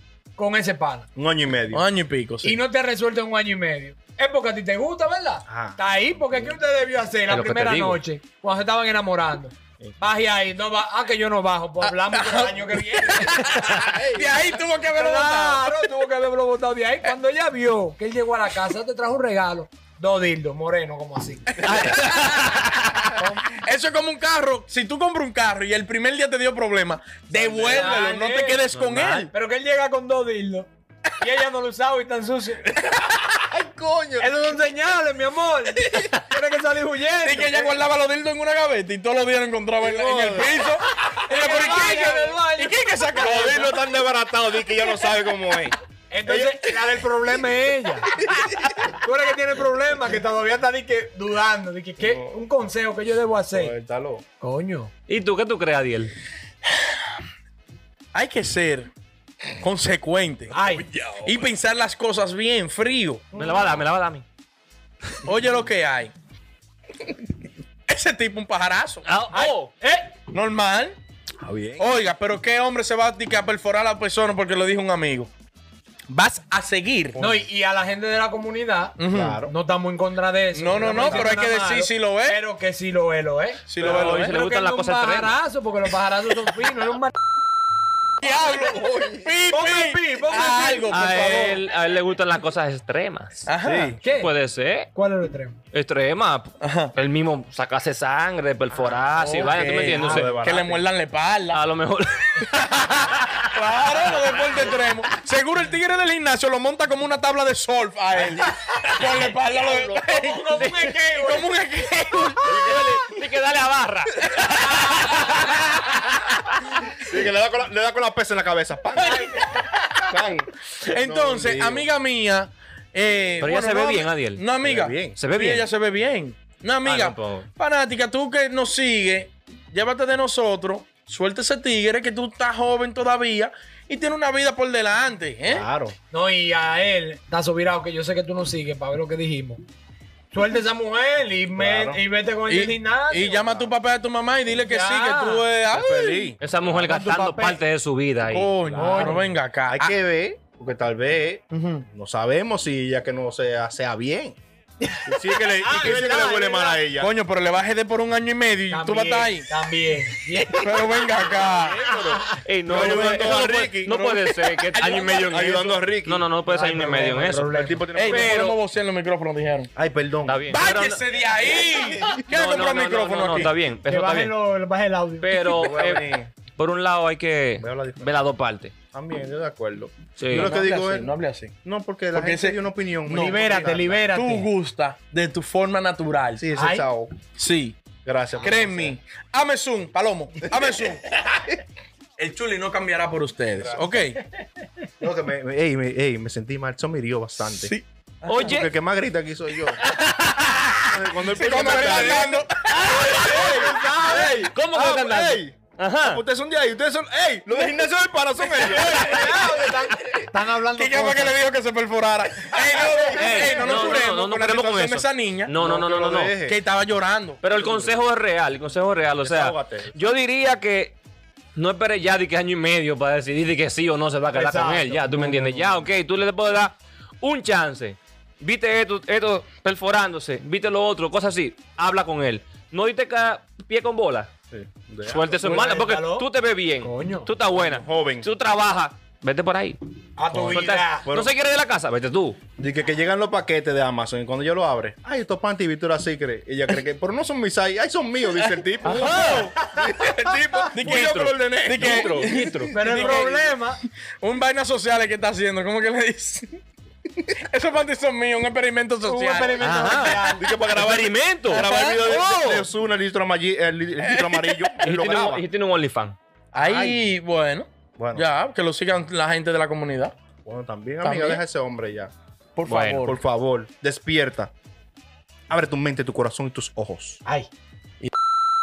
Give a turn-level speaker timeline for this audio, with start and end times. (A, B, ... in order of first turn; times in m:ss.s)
0:00.4-0:01.1 A
0:01.1-0:01.8 B
0:01.7-0:02.6 C
0:02.4-0:13.8 A
0:05.5-0:06.6 B
0:07.3-0:08.0 D
0:11.8-0:15.8 C
0:13.7-0:14.4 B
0:14.9-0:21.6 A
0:21.5-0:29.3 C
0:21.6-0:22.8 D
0:23.1-0:23.6 A
0:27.3-0:28.0 B
0:27.6-0:28.6 A
0:28.7-0:29.3 D
0:29.3-0:30.7 A
0:31.2-0:32.7 A
0:33.4-0:34.3 B
0:34.2-0:37.7 A
0:37.2-0:43.8 C
0:39.8-0:40.7 B
0:41.2-0:43.5 A
0:43.1-0:46.7 B
0:46.1-0:48.1 A
0:48.9-0:53.7 A
0:52.0-0:52.4 B
0:53.5-0:54.2 B
0:54.4-0:54.9 A
0:55.1-0:56.1 D
0:58.1-0:58.9 C
0:59.6-1:00.6 C
1:00.5-1:00.9 A
1:00.9-1:01.4 B
1:01.2-1:03.3 C
1:03.3-1:04.2 D
1:03.4-1:03.8 B
1:05.2-1:06.1 C
1:07.9-1:09.1 C
1:09.0-1:09.7 D
1:09.3-1:10.1 A
1:10.3-1:11.0 C
1:11.4-1:11.9 B
1:11.8-1:15.3 C
1:16.1-1:17.2 C
1:17.1-1:17.5 B
1:17.2-1:27.1 A
1:19.0-1:19.4 C
1:19.1-1:19.5 B
1:20.5-1:22.4 C
1:23.7-1:24.3 C
1:23.8-1:25.3 D
1:28.2-1:31.6 C
1:29.5-1:31.5 A
1:30.9-1:33.4 D
1:33.4-1:34.0 C
1:33.6-1:34.0 B
1:34.0-1:34.3 A
1:34.0-1:34.9 D
1:34.9-1:35.6 A
1:35.7-1:40.3 D
1:36.6-1:36.9 C
1:39.2-1:41.6 C
1:39.9-1:40.8 B
1:41.5-1:43.5 D
1:43.5-1:52.7 C
1:44.1-1:44.9 D
1:49.6-1:50.0 B
1:50.0-1:51.7 A
1:50.5-1:50.9 D
1:52.4-1:53.1 B
1:52.5-1:56.4 D
1:54.6-1:55.6 A
1:56.9-1:59.4 B
1:59.0-1:59.9 A
2:00.0-2:01.9 B
2:00.8-2:15.7 C
2:03.4-2:04.4 D
2:04.6-2:05.2 B
2:05.1-2:05.7 D
2:06.8-2:07.5 D
2:15.4-2:16.0 B
2:16.1-2:19.6 A
2:20.3-2:23.5 A
2:21.5-2:22.0 B
2:22.5-2:26.3 C
2:23.1-2:23.7 B
2:24.5-2:25.5 A
2:25.7-2:26.4 B
2:26.4-2:28.5 D
2:26.7-2:27.6 A
2:28.2-2:29.9 C
2:28.6-2:34.4 B
2:28.7-2:29.3 A
2:31.5-2:31.8 C
2:34.9-2:36.8 A
2:35.0-2:37.1 B
2:37.0-2:39.5 C
2:38.7-2:41.3 A
2:40.6-2:41.8 C
2:41.2-2:43.9 B
2:41.8-2:42.4 A
2:42.4-2:47.4 D
2:42.7-2:45.4 C
2:45.3-2:48.4 B
2:46.5-2:47.9 A
2:47.9-2:49.7 C
2:48.1-2:48.6 D
2:49.7-2:50.4 B
2:50.3-2:51.4 D
2:50.5-2:53.6 C
2:52.0-2:52.2 B
2:52.2-2:54.3 D
2:53.9-2:55.4 A
2:55.2-2:58.7 D
2:55.5-2:56.3 B
2:57.6-2:58.2 B
2:58.9-3:04.0 B
3:00.2-3:00.6 D
3:00.3-3:01.5 C
3:02.1-3:03.5 C
3:03.1-3:04.5 A
3:04.1-3:06.4 C
3:06.4-3:07.2 B
3:06.6-3:06.9 A
3:07.4-3:07.8 C
3:08.0-3:09.0 B
3:08.4-3:11.1 C
3:12.2-3:14.2 C
3:13.6-3:13.9 B
3:15.0-3:17.7 B
3:17.4-3:18.6 C
3:18.3-3:18.7 D
3:18.3-3:19.9 B
3:19.8-3:20.7 D
3:20.8-3:30.2 B
3:21.4-3:22.6 C
3:22.7-3:26.2 D
3:22.9-3:24.4 A
3:24.1-3:24.5 C
3:28.5-3:29.3 C
3:28.8-3:31.4 A
3:30.7-3:35.5 C
3:32.6-3:33.8 A
3:32.8-3:34.8 B
3:33.1-3:36.4 D
3:35.6-3:36.6 B
3:36.4-3:37.4 C
3:37.4-3:41.0 D
3:37.5-3:38.0 B
3:39.2-3:40.0 B
3:41.6-3:54.3 D
3:44.3-3:45.4 A
3:45.3-3:45.8 B
3:54.5-3:55.6 B
3:55.0-3:59.8 D
3:55.4-3:56.3 A
3:56.8-3:57.3 A
3:57.5-3:58.3 B
4:00.2-4:01.1 A
4:00.3-4:01.4 B
4:00.3-4:02.4 D
4:02.6-4:12.6 B
4:08.8-4:09.5 D
4:09.3-4:09.7 A
4:10.0-4:13.6 C
4:10.8-4:13.2 D
4:12.7-4:13.8 A
4:14.2-4:16.6 C
4:17.5-4:20.3 C
4:19.0-4:20.5 A
4:19.6-4:22.7 D
4:20.3-4:25.4 B
4:21.4-4:22.1 C
4:24.0-4:24.8 C
4:24.8-4:26.2 D
4:26.5-4:27.1 B
4:26.5-4:30.1 C
4:28.0-4:28.3 B
4:30.4-4:32.1 B
4:31.0-4:31.4 C
4:32.6-4:33.2 C
4:32.7-4:33.0 D
4:33.0-4:34.5 B
4:35.5-4:37.2 B